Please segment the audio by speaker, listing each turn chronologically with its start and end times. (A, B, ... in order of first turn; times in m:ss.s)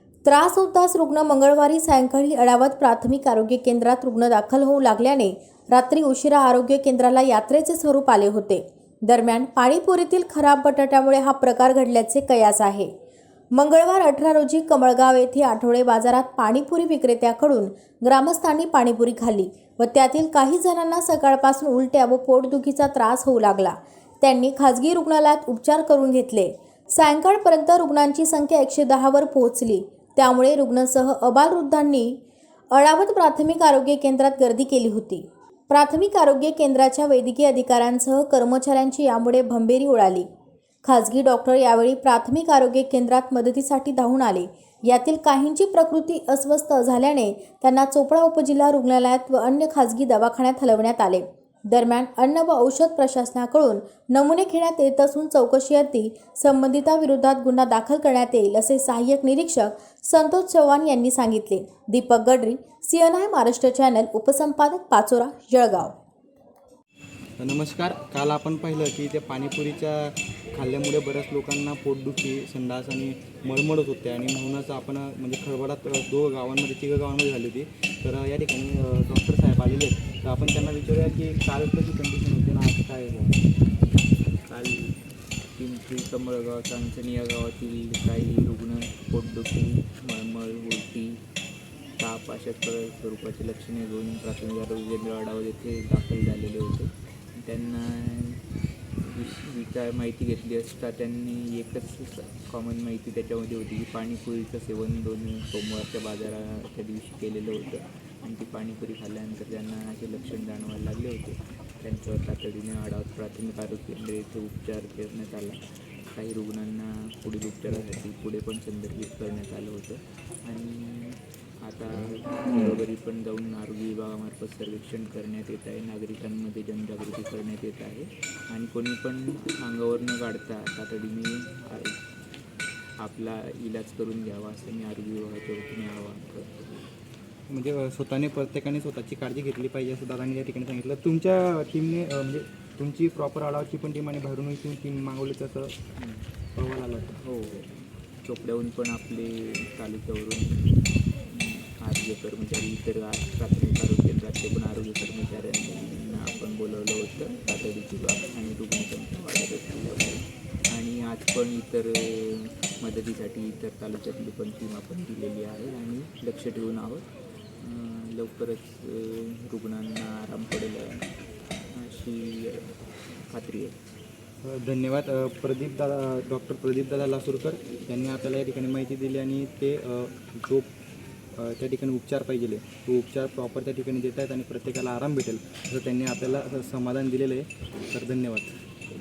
0:00.2-0:12.9 A
0:13.5-0:32.2 A
0:32.7-0:40.3 A
0:40.8-1:05.9 A
1:07.4-1:23.4 B
1:24.5-1:31.2 C
1:32.0-1:38.4 C
1:39.0-1:55.6 C
1:56.1-2:12.0 C
2:13.0-2:16.9 C
2:17.5-2:25.8 B
2:26.0-2:26.3 C
2:26.6-2:27.2 B
2:27.2-2:30.7 C
2:31.3-2:47.1 C
2:47.6-2:51.1 C
2:51.7-2:52.7 C
2:53.3-2:53.8 C
2:54.4-3:00.7 B
3:01.4-3:08.6 B